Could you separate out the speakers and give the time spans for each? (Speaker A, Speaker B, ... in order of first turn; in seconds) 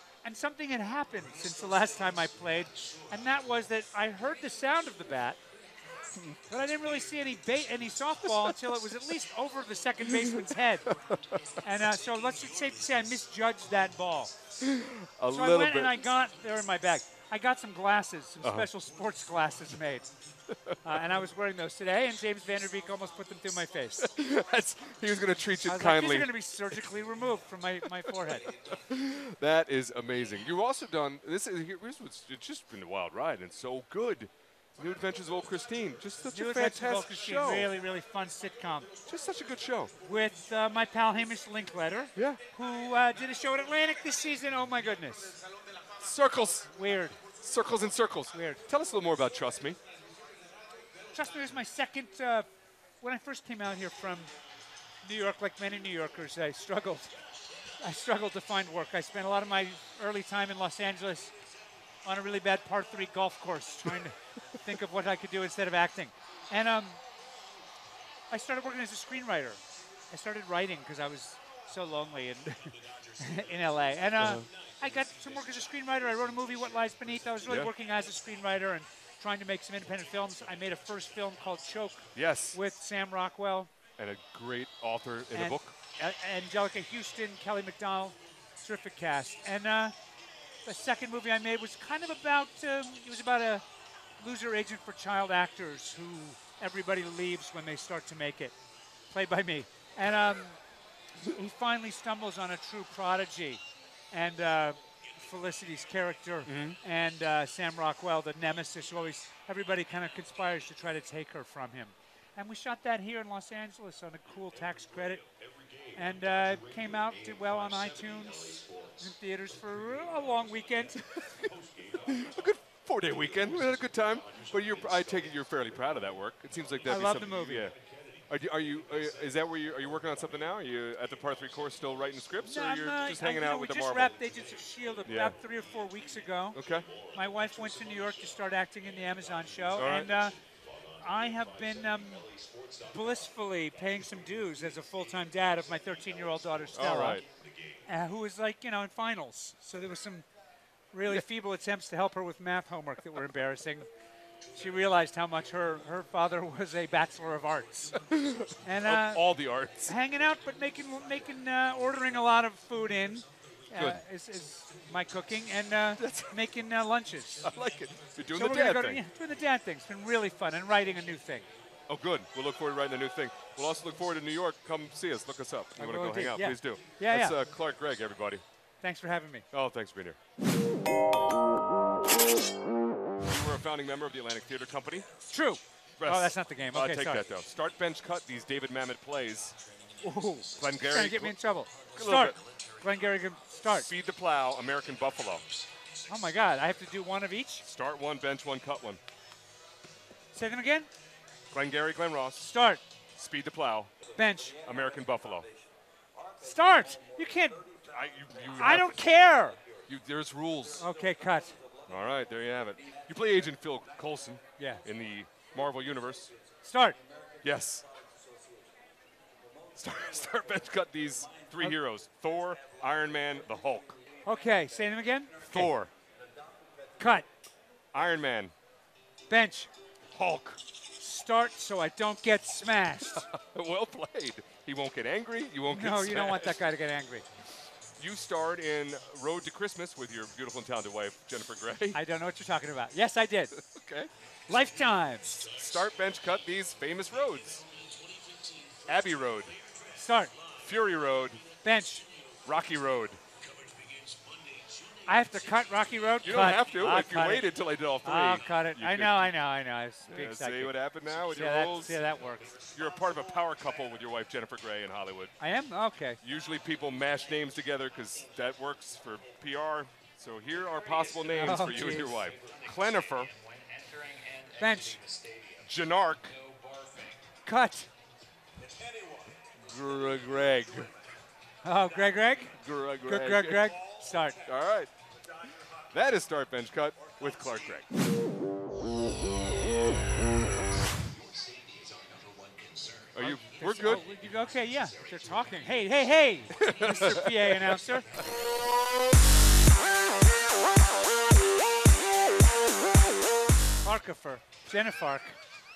Speaker A: 0.2-5.4, 6.5-10.9, 11.6-14.4, 15.3-20.1, 20.8-24.1, 25.6-28.5, 36.3-38.9, 40.0-45.4, 46.7-47.2, 48.3-48.6, 51.1-52.5, 53.0-54.3, 55.0-57.1, 57.8-61.3, 62.0-67.0, 68.3-83.7, 85.3-89.9, 90.6-93.6, 94.2-98.5, 99.1-100.6, 101.2-115.2, 115.9-121.0, 126.8-127.7, 132.4-136.6, 137.1-140.3, 141.0-142.2, 142.9-147.2, 147.8-150.2, 150.9-153.8, 154.5-158.1, 158.6-159.3, 159.8-167.5, 168.3-171.5, 175.8-177.3, 178.8-179.4, 185.3-187.2, 190.0-193.9, 196.1-197.6, 200.3-200.9, 202.4-202.8, 204.1-204.6, 206.4-207.7, 208.5-209.6, 210.8-211.6, 214.6-214.8, 216.6-217.0, 224.2-225.7, 227.0-227.3, 229.3-229.7, 231.0-233.2, 235.7-237.2, 241.9-243.6, 244.5-245.5, 249.9-250.3, 251.6-252.1, 255.1-257.5, 258.0-262.5, 265.4-266.2, 271.3-272.1, 274.6-275.0, 277.4-277.9, 281.6-284.4, 293.2-298.1, 303.8-305.3
Speaker B: 14.6-16.0, 18.4-18.7, 24.0-26.3, 28.7-37.7, 39.0-39.9, 42.1-42.4, 46.0-46.7, 47.4-49.8, 74.2-74.5, 77.4-77.7, 82.2-82.6, 84.0-85.7, 106.5-106.8, 121.9-127.7, 128.3-134.1, 135.1-135.4, 136.5-136.9, 139.7-140.1, 146.7-147.2, 158.1-159.9, 163.7-164.0, 166.0-166.3, 167.4-169.0, 171.9-178.4, 179.5-180.2, 183.2-185.1, 186.0-189.6, 190.5-191.3, 191.9-192.3, 193.9-195.4, 197.6-199.0, 201.5-202.5, 203.1-203.9, 204.6-205.5, 207.8-209.0, 209.9-210.8, 211.9-216.3, 217.4-217.8, 219.8-224.0, 225.4-225.9, 227.9-228.5, 230.1-230.6, 233.1-236.6, 238.0-242.0, 243.6-244.1, 245.5-247.6, 248.9-249.6, 250.6-251.4, 252.4-253.2, 256.2-259.3, 260.1-262.0, 262.7-265.3, 266.2-273.3, 275.6-276.4, 279.7-280.9, 282.6-283.7, 284.4-284.9, 285.9-287.9, 293.1-294.0, 296.5-297.7